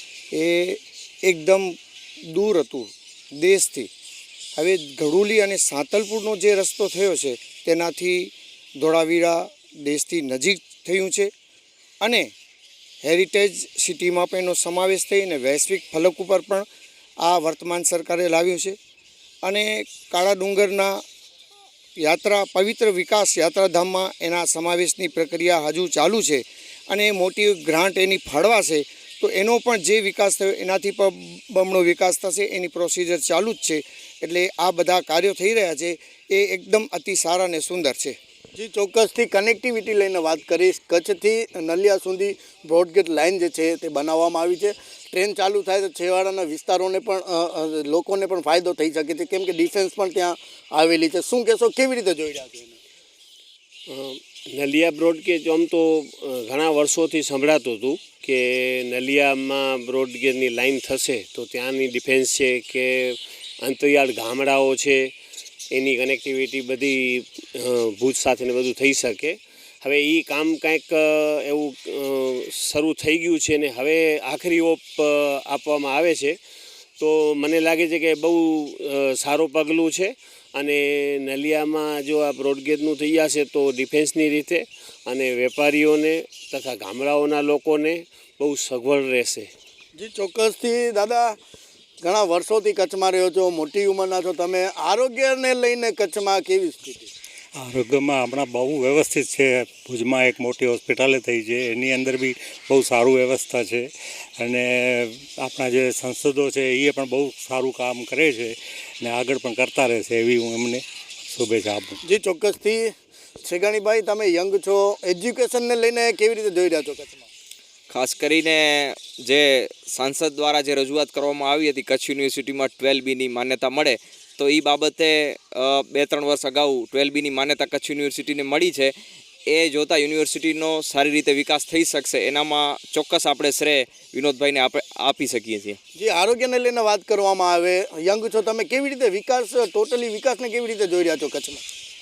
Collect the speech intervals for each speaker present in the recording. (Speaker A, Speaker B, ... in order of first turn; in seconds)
Speaker A: 0.3-1.8, 2.3-3.9, 4.5-11.3, 12.0-12.3, 13.0-16.6, 17.2-18.8, 19.4-21.0, 22.0-38.1
Speaker B: 38.6-44.7, 45.2-52.6, 90.0-91.3, 92.0-97.0, 112.1-112.8, 113.5-117.1, 136.0-141.6
Speaker C: 53.9-65.1, 65.7-76.4, 77.0-89.5
Speaker D: 97.6-112.0
Speaker E: 117.9-128.9, 129.5-135.8